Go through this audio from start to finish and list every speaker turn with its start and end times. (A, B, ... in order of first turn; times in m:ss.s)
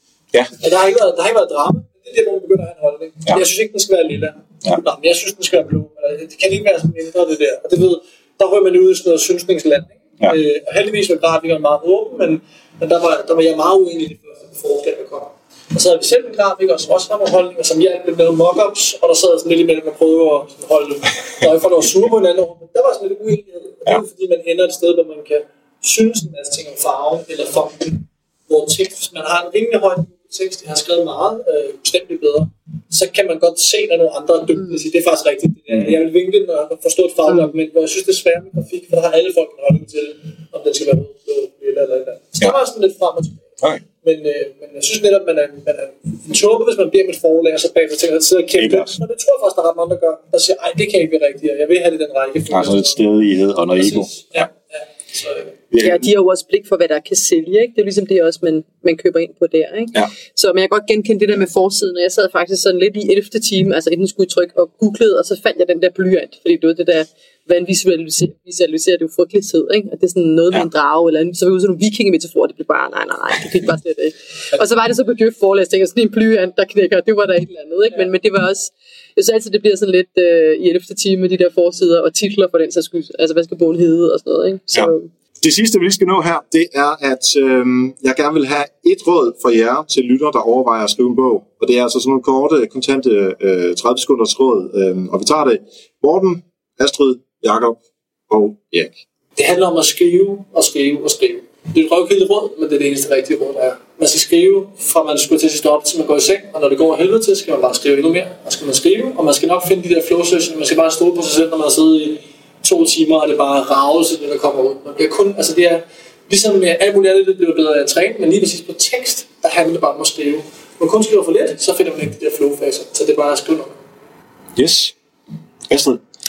0:00.6-0:53.0 A
0:48.6-0:48.9 B
0:52.5-0:54.3 B
0:53.8-0:55.6 A
0:55.7-0:56.1 B
0:55.8-1:25.1 C
1:24.7-1:39.0 B
1:39.4-2:03.7 A
2:04.6-2:04.9 B
2:05.7-2:06.0 B